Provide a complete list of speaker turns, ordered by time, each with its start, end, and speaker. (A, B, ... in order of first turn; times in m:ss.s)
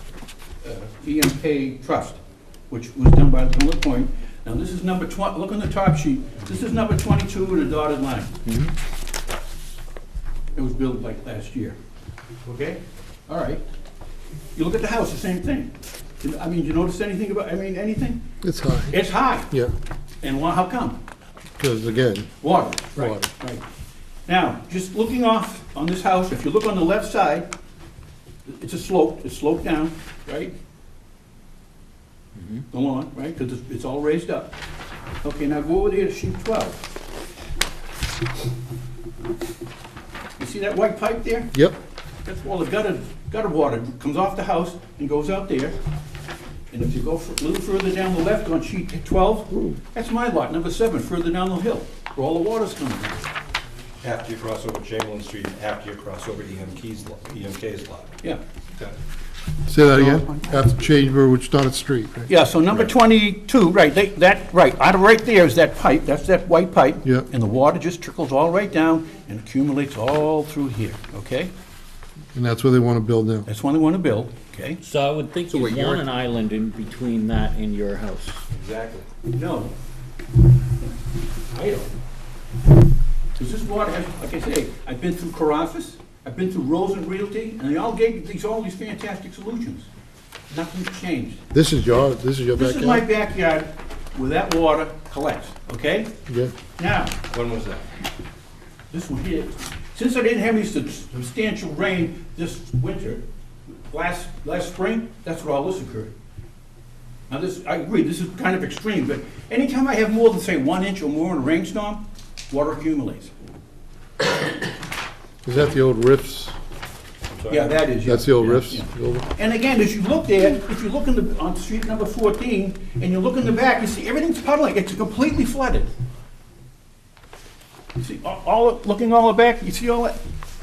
0:00.6-0:08.3 A
0:08.4-0:08.7 B
0:10.5-0:11.8 A
0:12.4-0:13.6 A
0:14.5-0:18.2 A
0:18.4-0:19.7 C
0:18.9-0:19.5 A
0:20.2-0:21.0 A
0:21.6-0:22.3 C
0:22.4-0:23.6 A
0:22.9-0:23.3 C
0:24.3-0:27.5 A
0:28.4-0:30.5 A
0:32.4-0:32.6 B
0:32.7-0:34.6 A
0:35.2-0:36.8 A
0:40.4-0:41.5 A
0:42.2-0:45.8 A
0:46.7-0:53.2 A
0:54.0-0:58.1 D
0:59.7-1:02.3 C
0:59.8-1:00.6 A
1:02.3-1:11.5 A
1:12.3-1:13.5 C
1:13.5-1:14.8 A
1:14.8-1:18.4 B
1:15.5-1:16.0 D
1:18.5-1:19.1 D
1:19.3-1:19.7 A
1:21.5-1:21.9 A
1:23.4-1:29.9 A
1:30.5-1:31.4 A
1:31.5-1:33.0 C
1:32.5-1:36.1 A
1:36.3-1:36.5 C
1:36.8-1:37.2 A
1:37.3-1:37.8 D
1:38.9-1:43.2 A
1:43.9-1:46.1 A
1:47.3-1:53.3 A
1:55.4-1:56.5 C
1:57.4-1:57.7 D
1:57.5-2:05.9 A
1:58.0-1:59.3 C
2:08.0-2:10.2 A